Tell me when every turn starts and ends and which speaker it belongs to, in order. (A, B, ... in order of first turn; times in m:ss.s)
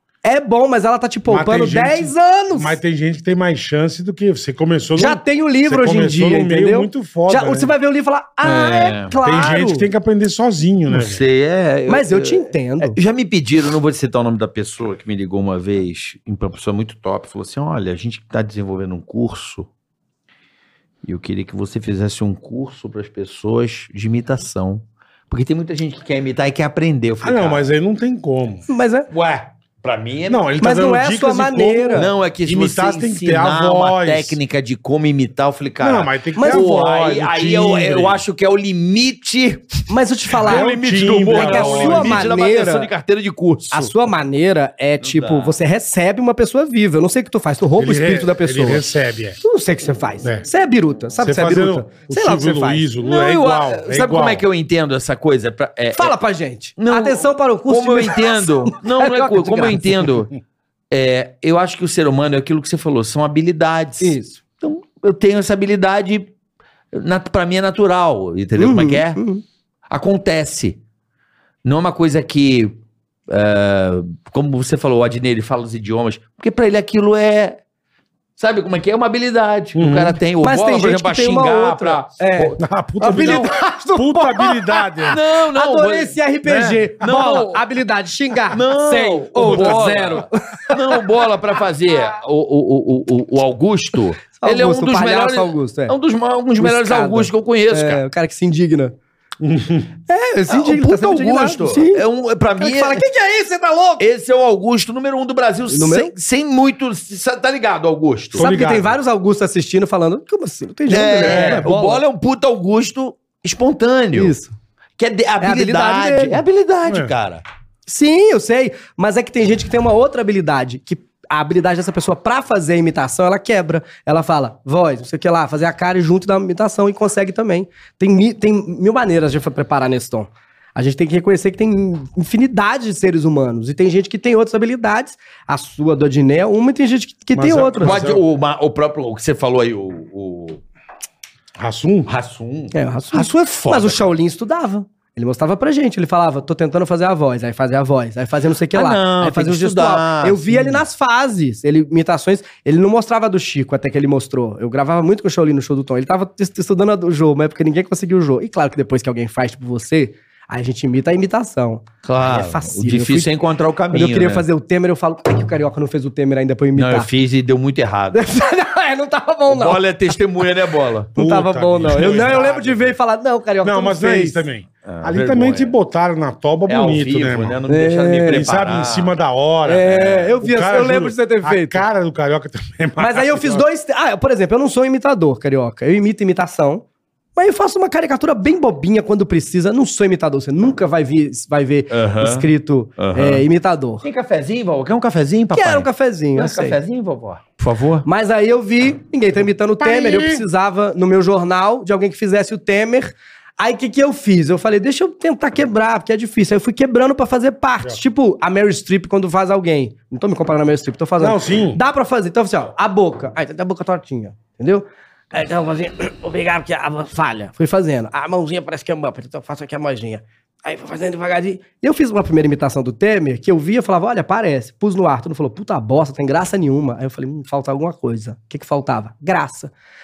0:00.2-0:02.8 A
0:01.3-0:07.7 B
0:05.0-0:09.9 A
0:08.4-0:09.2 C
0:09.2-0:11.2 B
0:10.9-0:19.7 C
0:11.9-0:13.0 A
0:21.0-0:27.7 C
0:27.2-0:28.6 B
0:28.7-0:29.1 A
0:29.1-0:30.5 C
0:30.3-0:34.4 B
0:30.6-0:32.1 A
0:32.0-0:44.0 C
0:35.8-0:38.2 B
0:36.4-0:36.7 A
0:39.9-0:40.7 A
0:40.4-0:42.3 B
0:41.2-0:42.9 A
0:43.7-0:48.9 A
0:45.0-0:45.6 C
0:47.8-0:49.4 B
0:49.4-0:52.9 A
0:50.2-0:50.5 B
0:51.2-0:54.4 B
0:53.0-0:56.2 C
0:56.0-1:00.1 A
0:56.8-1:00.3 C
1:00.9-1:06.3 C
1:04.0-1:04.4 A
1:06.9-1:09.2 C
1:08.6-1:09.4 A
1:09.9-1:10.8 C
1:11.6-1:12.8 C
1:13.3-1:17.6 C
1:18.4-1:23.5 C
1:19.8-1:20.2 B
1:20.4-1:31.0 A
1:22.6-1:25.2 B
1:25.1-1:26.2 C
1:26.4-1:27.0 B
1:27.0-1:27.6 C
1:28.5-1:38.0 C
1:29.4-1:29.8 B
1:34.3-1:35.9 A
1:36.6-1:39.0 A
1:39.4-1:39.9 B
1:40.1-1:42.0 A
1:40.5-1:43.0 C
1:42.6-1:44.1 A
1:44.0-1:48.5 C
1:45.7-1:46.1 A
1:48.4-1:49.0 B
1:48.4-1:52.0 A
1:50.9-1:54.3 C
1:51.2-1:51.7 B
1:54.2-1:54.5 A
1:55.0-1:57.4 C
1:55.4-1:56.4 A
1:56.9-1:57.1 B
1:57.9-2:18.0 A
2:17.4-2:18.2 B
2:17.8-2:20.6 C
2:21.6-2:22.1 B
2:22.1-2:24.1 C
2:22.7-2:43.3 A
2:28.7-2:30.8 C
2:42.0-2:44.5 C
2:43.9-2:47.1 A
2:46.8-2:48.3 C
2:48.1-2:49.9 A
2:49.5-2:51.1 C
2:51.2-2:53.0 B
2:51.2-2:54.4 A
2:51.8-2:52.4 C
2:53.6-2:57.6 B
2:54.8-2:55.8 C
2:56.7-2:59.2 C
2:57.7-2:58.5 A
2:58.3-3:03.7 B
2:59.7-3:01.8 A
2:59.8-3:00.4 C
3:03.0-3:06.8 A
3:07.4-3:14.0 A
3:11.9-3:13.4 C
3:14.0-3:18.1 C
3:15.5-3:16.8 A
3:18.0-3:49.7 A
3:19.8-3:20.4 B
3:31.2-3:31.8 B